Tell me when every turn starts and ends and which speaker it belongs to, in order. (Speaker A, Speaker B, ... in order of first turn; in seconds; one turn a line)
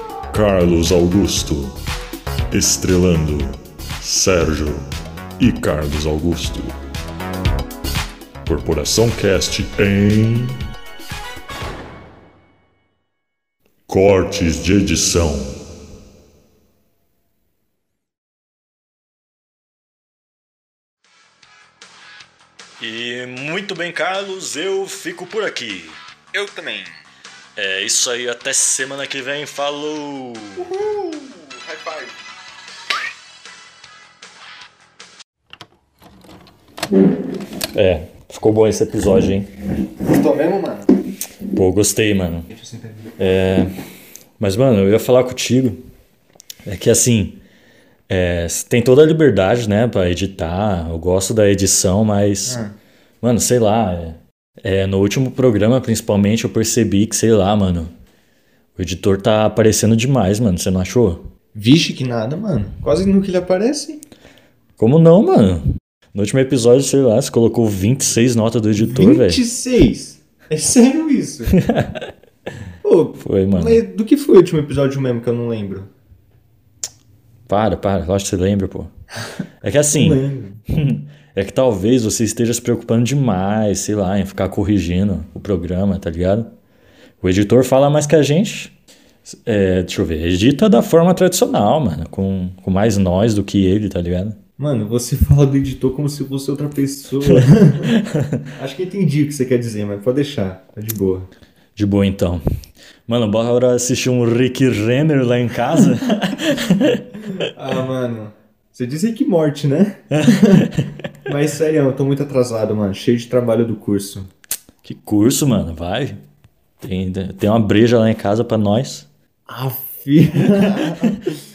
Speaker A: 0.3-1.7
Speaker A: 2.5-4.8
Speaker A: 5.4-6.8
Speaker A: 8.4-10.6
Speaker A: 13.9-15.6
Speaker B: 22.8-26.0
Speaker C: 26.3-27.0
Speaker B: 27.6-30.7
Speaker C: 30.6-32.2
Speaker B: 37.7-39.5
Speaker C: 40.0-40.9
Speaker B: 41.5-42.5
Speaker C: 42.5-43.1
Speaker B: 43.2-43.7
Speaker B: 44.4-45.8
Speaker B: 46.6-47.4
Speaker B: 48.1-52.6
Speaker C: 52.5-52.7
Speaker B: 53.2-57.9
Speaker B: 58.8-61.2
Speaker C: 61.5-64.0
Speaker B: 64.8-65.6
Speaker B: 66.1-69.4
Speaker C: 68.8-71.6
Speaker B: 71.6-72.1
Speaker C: 72.8-75.9
Speaker B: 73.2-73.8
Speaker B: 77.5-78.9
Speaker B: 79.6-86.5
Speaker C: 79.9-80.6
Speaker B: 87.2-88.7
Speaker B: 89.2-94.4
Speaker C: 94.6-97.9
Speaker B: 98.0-98.2
Speaker C: 98.5-101.3
Speaker B: 101.8-102.4
Speaker B: 103.1-107.0
Speaker C: 107.4-110.7
Speaker C: 111.2-114.3
Speaker B: 114.8-116.2
Speaker B: 116.8-119.1
Speaker C: 119.5-121.3